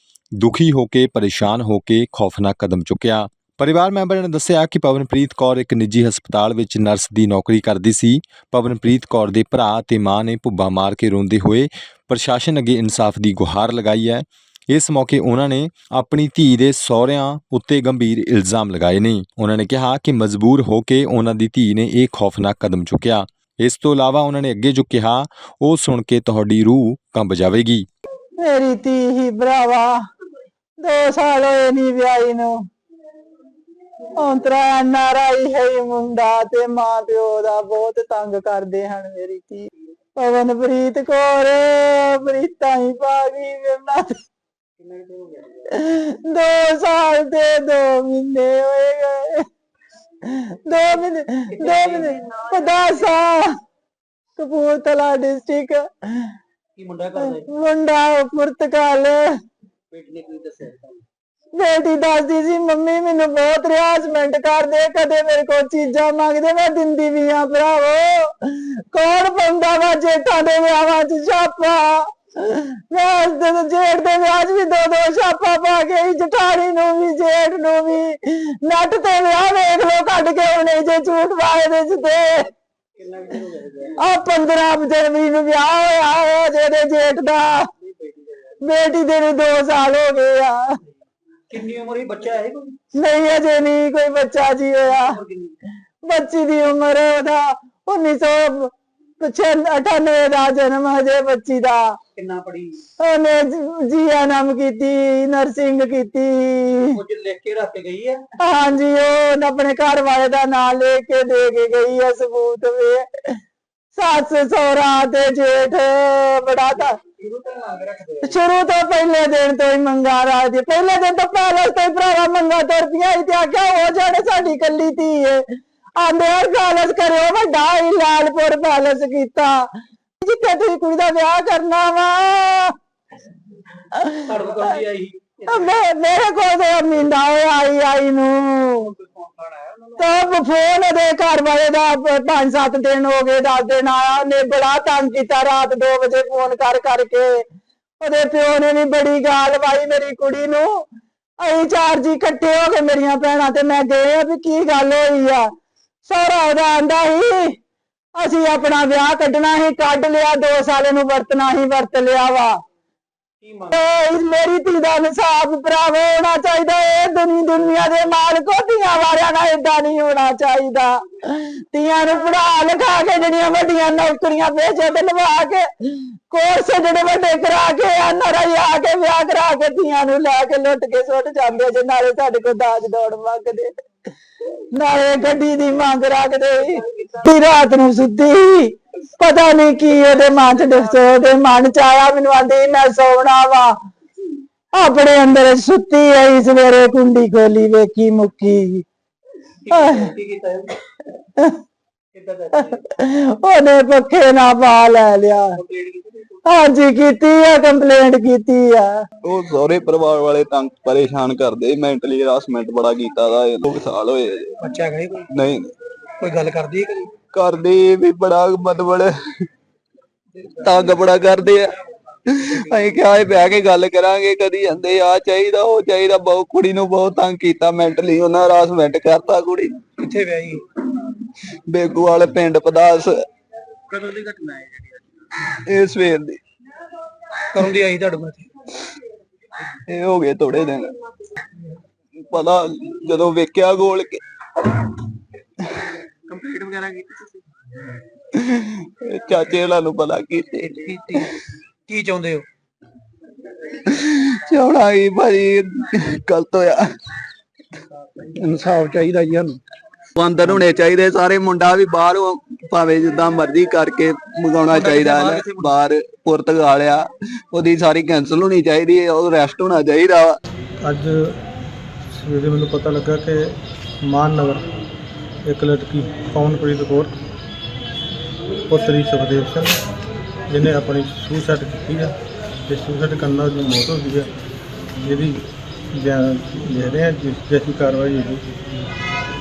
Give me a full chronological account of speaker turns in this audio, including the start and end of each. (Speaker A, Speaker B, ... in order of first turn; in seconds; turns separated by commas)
Speaker A: 0.4-27.9, Speaker B: 28.4-29.9, Speaker B: 30.8-32.5, Speaker B: 34.2-44.1, Speaker C: 44.8-45.7, Speaker B: 45.7-49.4, Speaker B: 50.2-53.5, Speaker C: 51.5-53.1, Speaker B: 54.4-56.3, Speaker C: 56.8-57.5, Speaker B: 57.2-59.2, Speaker C: 59.9-61.0, Speaker B: 61.6-82.5, Speaker C: 83.0-84.0, Speaker B: 84.0-87.7, Speaker C: 87.8-88.6, Speaker B: 88.7-90.6, Speaker C: 91.5-92.7, Speaker B: 93.0-95.2, Speaker C: 94.8-95.6, Speaker B: 96.1-101.8, Speaker C: 102.2-102.8, Speaker B: 103.0-106.9, Speaker C: 106.9-108.2, Speaker B: 108.4-113.1, Speaker B: 114.0-116.9, Speaker C: 117.0-118.3, Speaker B: 118.2-125.4, Speaker B: 126.0-129.6, Speaker B: 130.2-132.7, Speaker B: 133.9-134.2, Speaker C: 134.2-135.8, Speaker B: 135.5-138.9, Speaker C: 138.8-140.2, Speaker B: 140.0-147.4, Speaker B: 148.0-150.8, Speaker B: 151.4-155.5, Speaker B: 156.1-157.6, Speaker B: 158.2-162.6, Speaker C: 163.4-163.8, Speaker B: 163.7-183.7, Speaker B: 184.7-193.7, Speaker C: 186.6-187.3, Speaker C: 189.9-191.0, Speaker B: 194.8-198.8, Speaker C: 199.7-200.8, Speaker B: 199.7-200.0, Speaker C: 202.2-202.8, Speaker B: 202.8-205.6, Speaker C: 205.6-206.4, Speaker B: 206.5-208.9, Speaker D: 209.2-214.6, Speaker C: 214.6-215.3, Speaker D: 215.3-215.7, Speaker C: 216.2-217.2, Speaker D: 217.3-219.1, Speaker C: 220.4-221.0, Speaker D: 220.6-221.7, Speaker D: 222.3-229.9, Speaker C: 222.6-223.1, Speaker C: 230.0-230.6, Speaker D: 231.7-233.1, Speaker C: 233.9-235.0, Speaker D: 235.7-236.4, Speaker C: 237.5-238.5, Speaker D: 239.9-240.9, Speaker D: 242.3-244.9, Speaker C: 246.3-247.4, Speaker D: 248.3-250.8, Speaker C: 250.7-251.4, Speaker C: 251.9-252.5, Speaker D: 253.9-256.8, Speaker C: 257.9-259.6, Speaker D: 260.2-270.4, Speaker C: 264.7-265.8, Speaker E: 270.8-271.4, Speaker E: 272.1-274.7, Speaker E: 275.4-277.2, Speaker E: 278.7-279.8, Speaker E: 280.5-284.3, Speaker E: 285.0-288.6